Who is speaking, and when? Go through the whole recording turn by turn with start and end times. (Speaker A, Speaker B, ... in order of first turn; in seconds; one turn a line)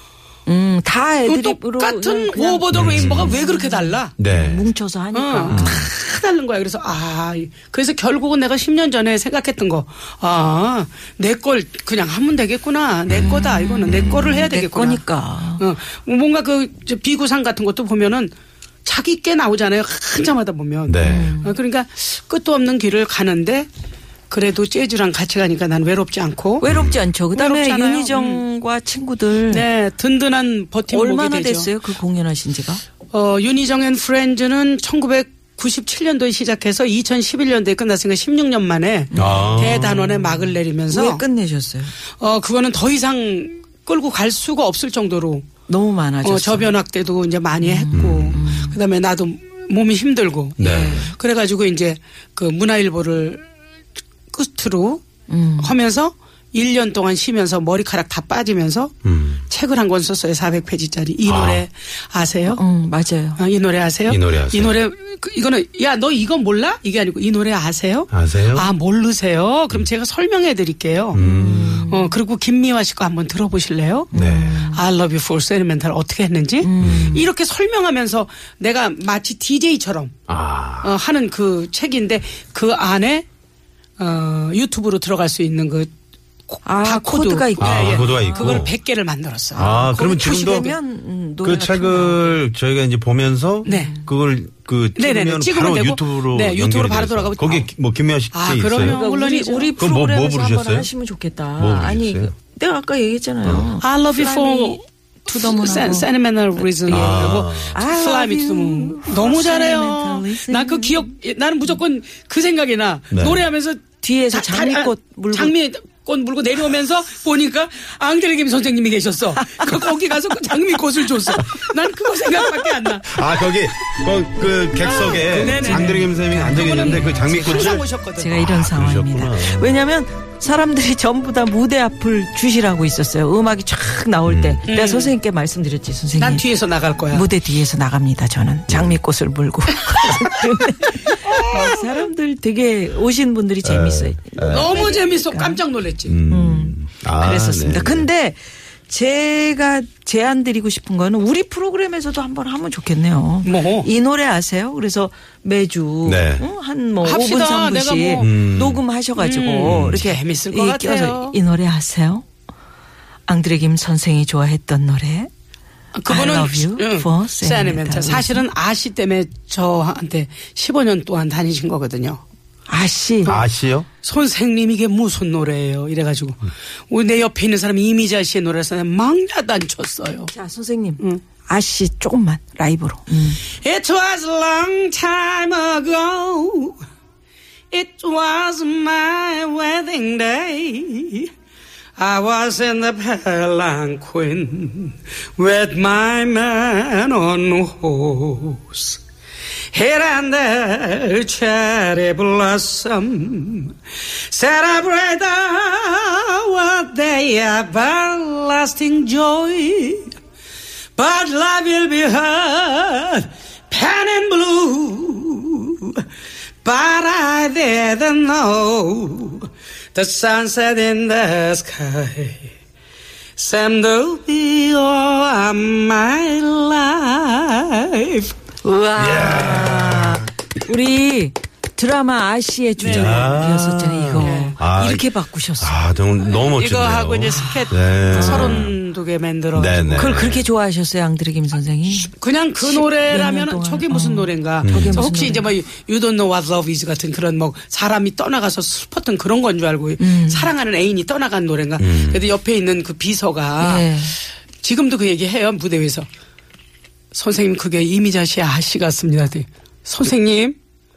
Speaker A: 0.5-5.8
Speaker B: 1.3-4.2
Speaker C: 2.7-3.4
Speaker C: 4.2-4.7
Speaker B: 5.1-18.3
Speaker C: 5.5-5.9
Speaker C: 13.1-14.4
Speaker A: 13.1-15.6
Speaker B: 18.9-23.7
Speaker C: 20.9-21.4
Speaker A: 21.0-21.6
Speaker B: 24.3-26.6
Speaker A: 26.6-29.6
Speaker C: 26.7-27.1
Speaker B: 27.3-28.4
Speaker B: 29.5-31.7
Speaker A: 30.9-32.8
Speaker B: 33.1-41.2
Speaker A: 39.1-41.9
Speaker C: 39.1-39.9
Speaker B: 42.2-45.5
Speaker A: 45.7-46.8
Speaker B: 46.2-53.4
Speaker A: 47.6-48.8
Speaker C: 47.9-48.4
Speaker C: 50.6-51.0
Speaker A: 50.6-51.1
Speaker B: 54.3-55.0
Speaker A: 55.3-55.7
Speaker B: 55.6-59.0
Speaker C: 59.0-59.4
Speaker B: 59.5-62.6
Speaker C: 61.2-61.6
Speaker A: 62.5-63.4
Speaker B: 63.4-71.2
Speaker C: 64.1-64.8
Speaker C: 68.1-68.7
Speaker C: 71.1-71.8
Speaker A: 71.1-72.2
Speaker B: 71.8-80.1
Speaker A: 74.1-74.8
Speaker C: 74.1-74.7
Speaker A: 76.6-77.3
Speaker C: 76.8-77.2
Speaker C: 80.3-80.9
Speaker B: 80.8-83.2
Speaker B: 84.0-85.9
Speaker B: 86.5-89.7
Speaker A: 86.7-88.6
Speaker C: 87.6-88.7
Speaker C: 89.5-90.8
Speaker A: 89.6-92.4
Speaker C: 91.4-99.0
Speaker A: 93.7-94.1
Speaker B: 93.7-93.9
Speaker B: 95.0-97.7
Speaker B: 98.3-99.8
Speaker A: 98.8-111.0
Speaker C: 99.8-100.9
Speaker C: 101.6-102.3
Speaker C: 103.4-103.7
Speaker B: 103.8-113.8
Speaker C: 106.9-107.8
Speaker C: 113.1-113.4
Speaker A: 114.0-115.5
Speaker B: 114.3-123.6
Speaker C: 123.1-129.8
Speaker B: 124.8-128.4
Speaker A: 124.9-136.4
Speaker C: 134.3-134.6
Speaker B: 134.7-135.2
Speaker B: 136.2-137.3
Speaker A: 137.1-145.6
Speaker C: 138.7-139.0
Speaker B: 141.1-142.1
Speaker C: 143.6-144.8
Speaker B: 144.5-146.2
Speaker C: 146.1-148.1
Speaker A: 146.3-162.2
Speaker B: 153.4-153.9
Speaker C: 156.1-156.5
Speaker B: 157.0-158.4
Speaker C: 158.2-158.8
Speaker B: 159.2-161.4
Speaker C: 159.6-160.1
Speaker A: 163.3-165.3
Speaker B: 165.9-172.2
Speaker A: 166.1-168.4
Speaker A: 172.7-173.4
Speaker C: 173.2-173.9
Speaker B: 174.0-180.3
Speaker A: 180.3-183.4
Speaker B: 183.6-186.8
Speaker B: 187.7-191.3
Speaker B: 192.0-199.0
Speaker B: 199.7-203.8
Speaker B: 204.3-210.1
Speaker B: 211.0-216.1
Speaker B: 216.6-222.5
Speaker B: 223.4-228.3
Speaker A: 228.6-235.8
Speaker C: 228.9-230.3
Speaker B: 232.8-233.4
Speaker C: 232.8-235.1
Speaker B: 234.2-234.6
Speaker C: 235.6-238.7
Speaker B: 236.2-240.2
Speaker A: 238.1-238.7
Speaker C: 239.5-240.5
Speaker A: 239.9-245.5
Speaker B: 242.1-253.9
Speaker C: 244.6-245.0
Speaker A: 250.0-250.5
Speaker C: 251.8-252.3
Speaker A: 253.6-254.2
Speaker B: 254.6-256.1
Speaker B: 257.1-260.6